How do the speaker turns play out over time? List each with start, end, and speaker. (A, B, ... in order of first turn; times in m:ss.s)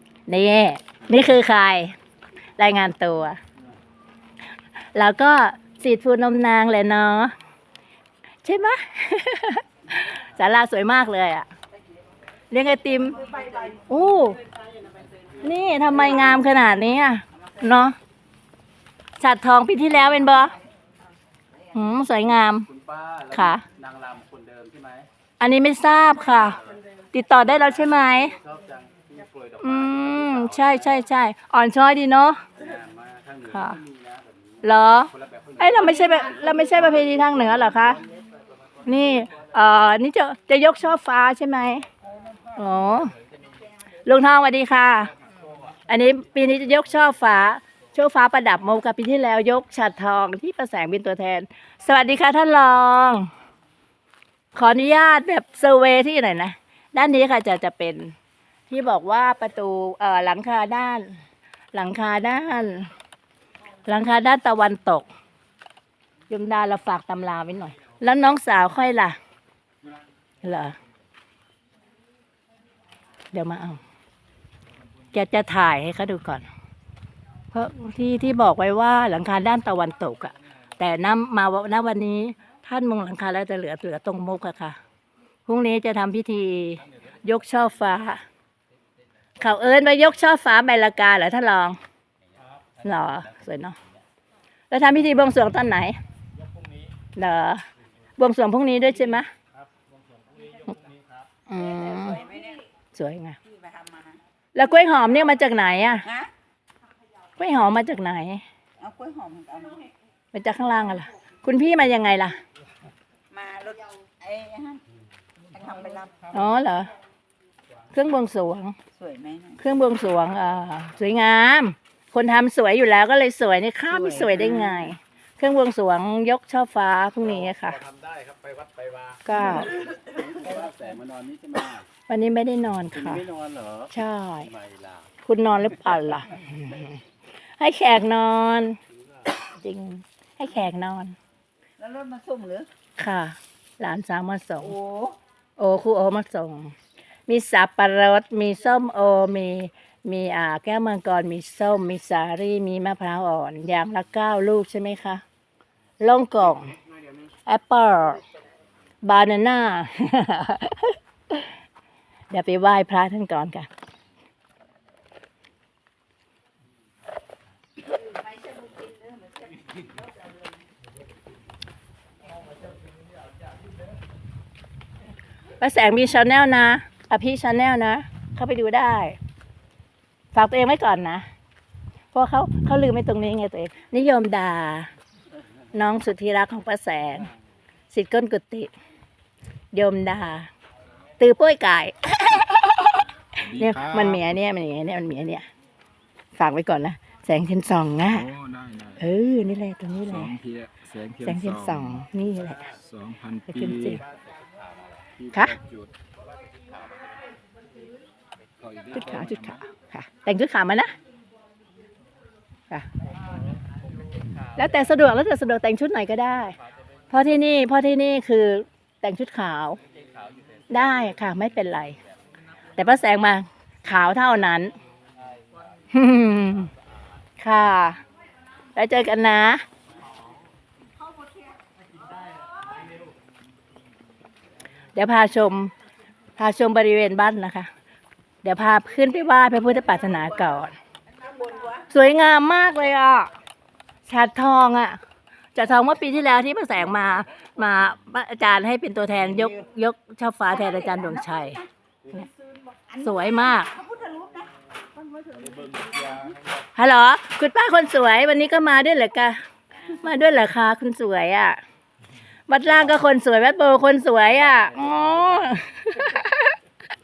0:00.3-0:02.0 A
0:01.0-0:01.3 B
0:02.6-0:03.4 A
0:05.0-0:07.3 A
0:08.4-0:11.5 A
0:12.5-0:13.2 A
0:13.2-0:13.8 C
0:13.9-0:14.4 A
0:15.4-0:18.0 A
0:19.2-0:20.5 A
0:21.7-0:22.7 A
0:22.7-0:25.1 B
0:23.3-0:23.6 A
0:25.4-0:26.6 A
0:27.1-0:28.4 A
0:28.4-0:31.0 B
0:29.6-0:32.4 A
0:32.6-0:34.6 B
0:33.5-0:33.8 A
0:34.6-0:38.0 A
0:35.1-0:36.0 B
0:38.8-0:41.9 A
0:42.6-0:43.1 A
0:44.0-0:45.1 A
0:45.9-0:53.3 A
0:54.6-0:58.2 A
0:58.7-1:01.2 A
1:01.7-1:02.9 A
1:03.9-1:05.1 A
1:06.3-1:09.2 A
1:10.4-1:10.8 A
1:13.3-1:13.8 A
1:15.1-1:16.5 A
1:17.5-1:24.8 A
1:25.5-1:28.2 A
1:29.4-1:31.8 A
1:32.8-1:33.8 A
1:34.7-1:36.0 A
1:37.2-1:37.6 A
1:38.2-1:39.3 A
1:39.6-1:41.3 B
1:41.5-1:42.2 A
1:41.5-1:42.7 C
1:42.9-1:43.4 A
1:43.4-1:44.2 C
1:44.6-1:46.1 A
1:46.0-1:46.3 C
1:47.4-1:48.4 A
1:48.8-1:49.9 C
1:50.3-1:52.4 A
1:53.3-1:54.8 C
1:55.5-1:56.3 C
1:56.3-1:56.9 A
1:57.9-1:58.8 A
1:59.0-1:59.6 C
1:59.6-2:07.8 A
2:03.9-2:04.9 C
2:07.5-2:11.9 B
2:09.3-2:09.8 A
2:12.1-2:13.3 A
2:12.9-2:15.1 B
2:13.9-2:14.5 A
2:15.2-2:17.0 A
2:17.6-2:18.8 A
2:19.4-2:21.2 A
2:21.8-2:22.7 C
2:23.0-2:24.8 A
2:24.6-2:25.2 C
2:25.6-2:26.8 A
2:27.3-2:35.2 A
2:36.0-2:36.8 A
2:37.5-2:38.2 A
2:39.0-2:41.5 A
2:42.3-2:43.7 A
2:47.9-2:49.9 C
2:55.6-2:59.2 A
3:00.3-3:01.3 A
3:02.1-3:04.9 A
3:05.7-3:07.3 A
3:07.9-3:08.7 A
3:09.7-3:10.5 A
3:11.2-3:15.5 A
3:13.4-3:14.2 B
3:16.4-3:18.3 A
3:18.1-3:19.0 B
3:19.0-3:20.4 A
3:20.1-3:22.0 B
3:21.2-3:22.7 A
3:22.7-3:25.9 B
3:23.5-3:24.0 A
3:26.6-3:27.1 B
3:28.6-3:29.6 B
3:28.9-3:31.0 A
3:34.6-3:36.6 A
3:37.1-3:39.8 A
3:39.9-3:41.1 B
3:40.7-3:42.0 A
3:42.8-3:44.8 A
3:45.3-3:45.7 B
3:45.9-3:46.7 A
3:47.4-3:48.0 A
3:48.8-3:49.6 A
3:55.0-3:55.7 A
3:56.4-3:57.7 A
3:58.4-4:00.8 A
4:01.1-4:01.9 C
4:01.9-4:03.3 A
4:04.1-4:05.0 A
4:05.6-4:11.6 A
4:10.5-4:11.6 C
4:12.8-4:14.5 C
4:13.0-4:13.7 A
4:15.1-4:16.2 C
4:15.4-4:16.4 B
4:16.8-4:21.6 A
4:22.5-4:26.6 A